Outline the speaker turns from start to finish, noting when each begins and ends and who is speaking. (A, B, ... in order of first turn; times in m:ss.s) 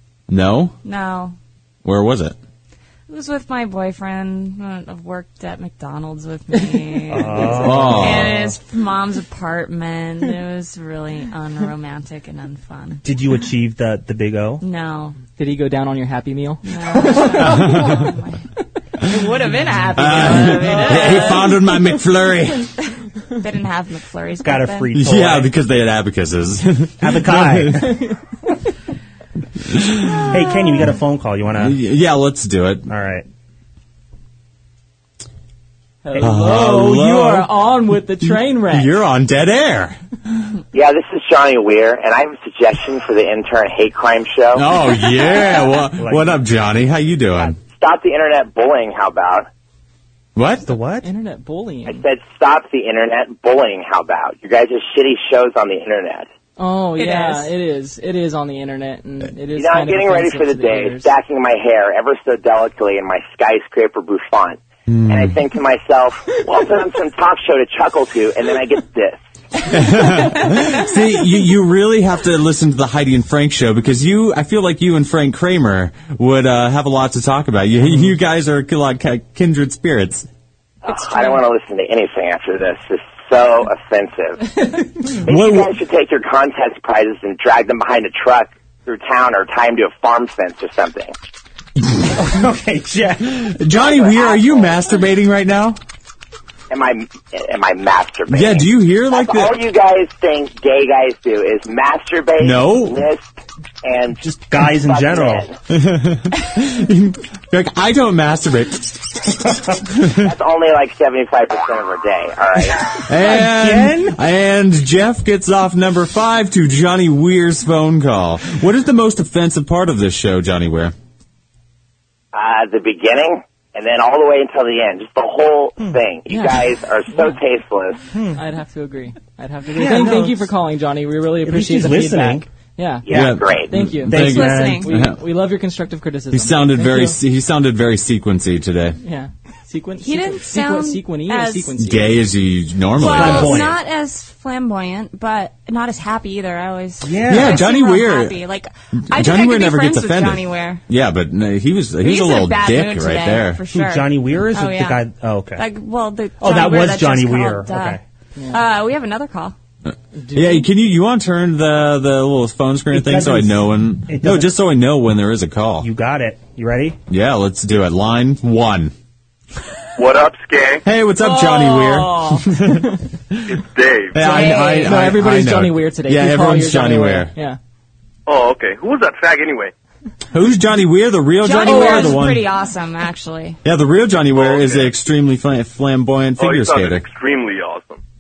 0:00.3-0:00.8 A
0:00.8-0:01.4 B
0:01.8-0:02.4 A
0:03.1-0:13.0 B
0:07.1-0:08.4 C
0:07.5-0:08.5 A
0:13.0-0:14.6 C
0:14.6-0:15.2 B
0:15.4-0:18.0 D
0:16.6-0:18.4 B
0:17.4-0:18.1 A
0:19.0-0:21.7 B
0:20.0-0:22.7 A
0:20.1-0:21.4 D
0:22.9-0:24.9 B
0:24.4-0:25.5 C
0:24.9-0:28.0 A
0:27.0-0:28.1 C
0:29.6-0:30.4 A
0:30.2-0:31.8 C
0:31.6-0:32.9 A
0:32.9-0:33.3 C
0:36.0-0:38.9 D
0:36.2-0:37.5 A
0:38.2-0:40.0 A
0:40.7-0:44.6 E
0:44.5-0:47.6 A
0:45.4-0:46.4 C
0:47.8-0:49.5 E
0:50.4-0:50.7 A
0:50.6-0:51.1 C
0:51.0-0:52.0 D
0:51.9-0:56.3 E
0:56.6-1:01.1 D
0:57.0-0:57.5 B
0:59.5-1:09.2 E
1:04.9-1:05.4 A
1:09.7-1:20.3 A
1:20.8-1:31.1 E
1:20.9-1:21.4 B
1:25.3-1:25.7 A
1:32.1-1:33.6 C
1:33.4-1:35.8 A
1:33.7-1:34.8 E
1:36.7-1:43.3 E
1:38.3-1:39.6 A
1:42.4-1:43.0 A
1:43.8-1:44.2 E
1:44.2-1:45.4 C
1:44.8-1:45.6 E
1:45.7-1:50.3 A
1:50.1-1:53.0 E
1:53.0-1:54.2 C
1:53.1-2:00.9 A
2:02.3-2:08.0 E
2:06.3-2:07.3 D
2:08.1-2:08.4 C
2:08.4-2:17.2 D
2:09.7-2:10.5 C
2:11.4-2:12.5 C
2:13.0-2:13.8 E
2:13.1-2:15.2 A
2:14.1-2:14.9 C
2:14.2-2:14.9 B
2:16.3-2:19.0 A
2:19.0-2:22.3 D
2:20.0-2:21.8 B
2:21.8-2:23.7 A
2:23.0-2:30.8 B
2:23.0-2:23.8 C
2:27.0-2:27.7 C
2:27.3-2:28.4 A
2:29.1-2:33.6 A
2:32.0-2:35.0 B
2:33.7-2:35.6 C
2:35.6-2:38.0 B
2:36.4-2:38.0 C
2:38.4-2:38.6 D
2:38.5-2:39.6 B
2:39.9-2:45.9 A
2:40.2-2:40.7 D
2:42.9-2:44.5 C
2:45.8-2:47.0 C
2:47.1-2:48.9 A
2:50.0-2:50.8 F
2:50.8-2:53.6 A
2:51.2-2:52.5 B
2:53.5-2:54.3 F
2:54.1-2:57.3 A
2:54.2-2:55.0 B
2:54.2-2:57.6 D
2:58.3-2:59.7 F
3:00.3-3:02.5 A
3:01.4-3:03.6 B
3:01.6-3:02.2 D
3:03.6-3:07.0 A
3:04.3-3:04.9 F
3:06.4-3:08.0 F